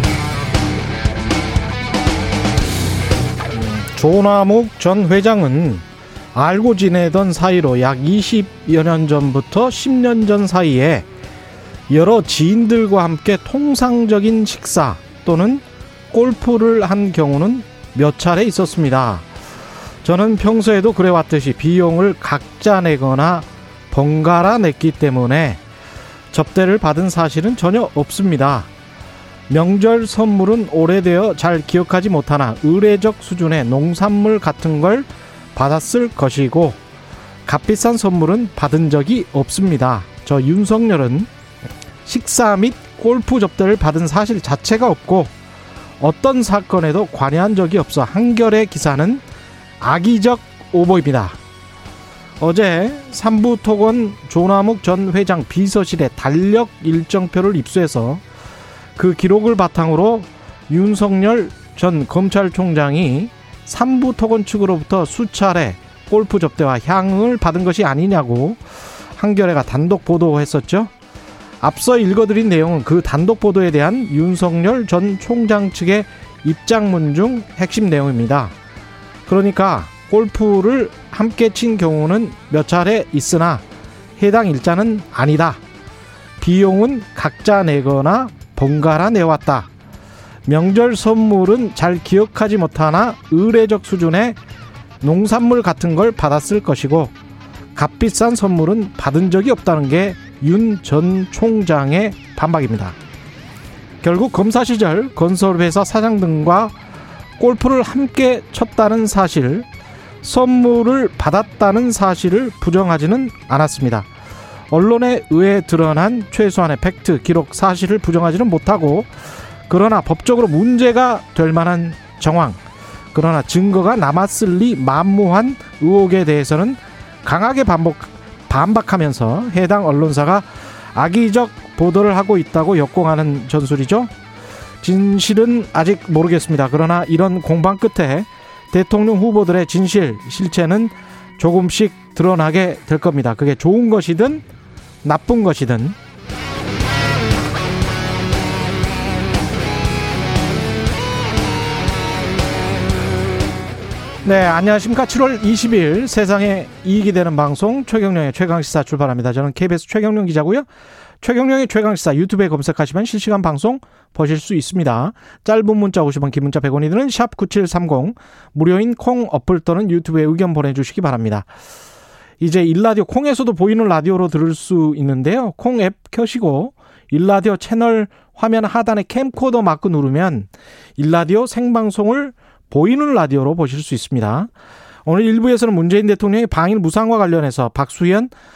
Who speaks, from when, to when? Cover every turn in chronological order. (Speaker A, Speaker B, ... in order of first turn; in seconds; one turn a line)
Speaker A: 3.5-11.1
Speaker A: 11.9-19.2
Speaker A: 20.0-25.6
Speaker A: 26.3-28.7
Speaker A: 29.5-36.8
Speaker A: 37.5-41.3
Speaker A: 42.0-45.3
Speaker A: 46.0-49.2
Speaker A: 49.8-51.4
Speaker A: 52.4-58.2
Speaker A: 59.0-70.9
Speaker A: 71.6-78.5
Speaker A: 79.3-83.6
Speaker A: 84.2-85.6
Speaker A: 86.4-89.7
Speaker A: 90.5-94.4
Speaker A: 95.0-97.1
Speaker A: 97.7-103.0
Speaker A: 104.0-106.7
Speaker A: 107.4-109.7
Speaker A: 110.2-114.1
Speaker A: 114.7-122.6
Speaker A: 123.1-134.1
Speaker A: 134.8-144.4
Speaker A: 145.0-145.9
Speaker A: 154.2-160.7
Speaker A: 161.2-171.5
Speaker A: 172.4-184.5
Speaker A: 185.0-188.3